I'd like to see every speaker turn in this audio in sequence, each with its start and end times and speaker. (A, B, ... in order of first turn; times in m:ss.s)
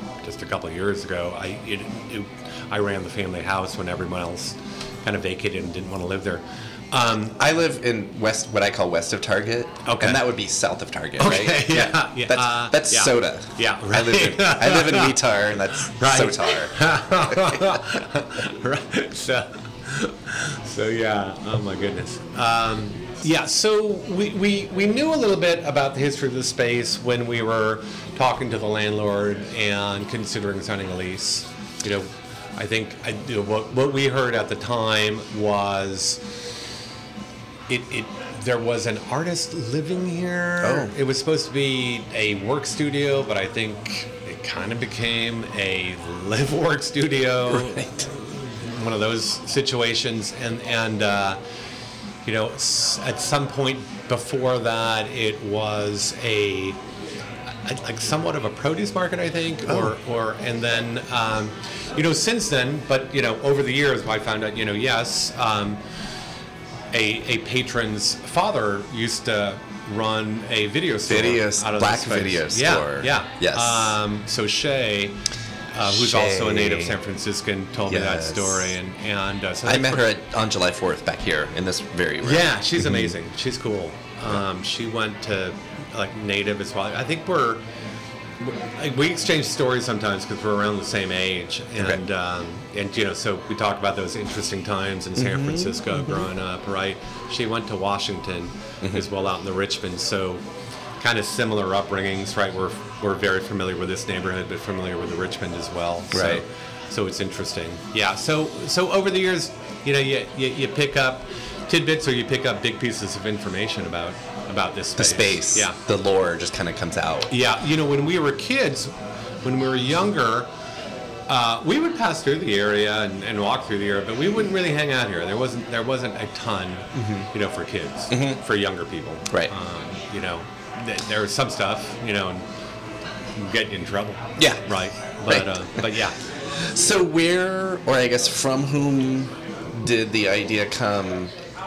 0:00.2-0:07.4 A
0:07.4-0:17.8 B
0:09.8-0:10.2 A
0:11.2-0:15.2 A
0:15.8-0:36.2 A
0:37.7-0:51.4 A
0:40.6-0:41.0 B
0:47.5-0:48.1 B
0:52.2-0:56.8 A
0:57.6-1:05.8 A
0:59.7-1:00.0 B
1:06.9-1:15.2 A
1:11.1-1:13.9 B
1:15.7-1:20.1 A
1:15.9-1:17.0 B
1:17.9-1:18.7 B
1:19.6-1:23.1 B
1:22.2-1:27.6 A
1:28.4-1:40.4 A
1:35.2-1:36.3 B
1:38.8-1:39.1 B
1:41.0-1:55.8 A
1:46.1-1:46.4 B
1:55.0-1:57.3 B
1:57.3-2:00.5 A
2:01.3-2:12.4 A
2:07.0-2:07.3 B
2:08.1-2:08.4 B
2:13.4-2:16.2 A
2:14.4-2:14.6 B
2:15.3-2:16.0 B
2:16.5-2:21.4 B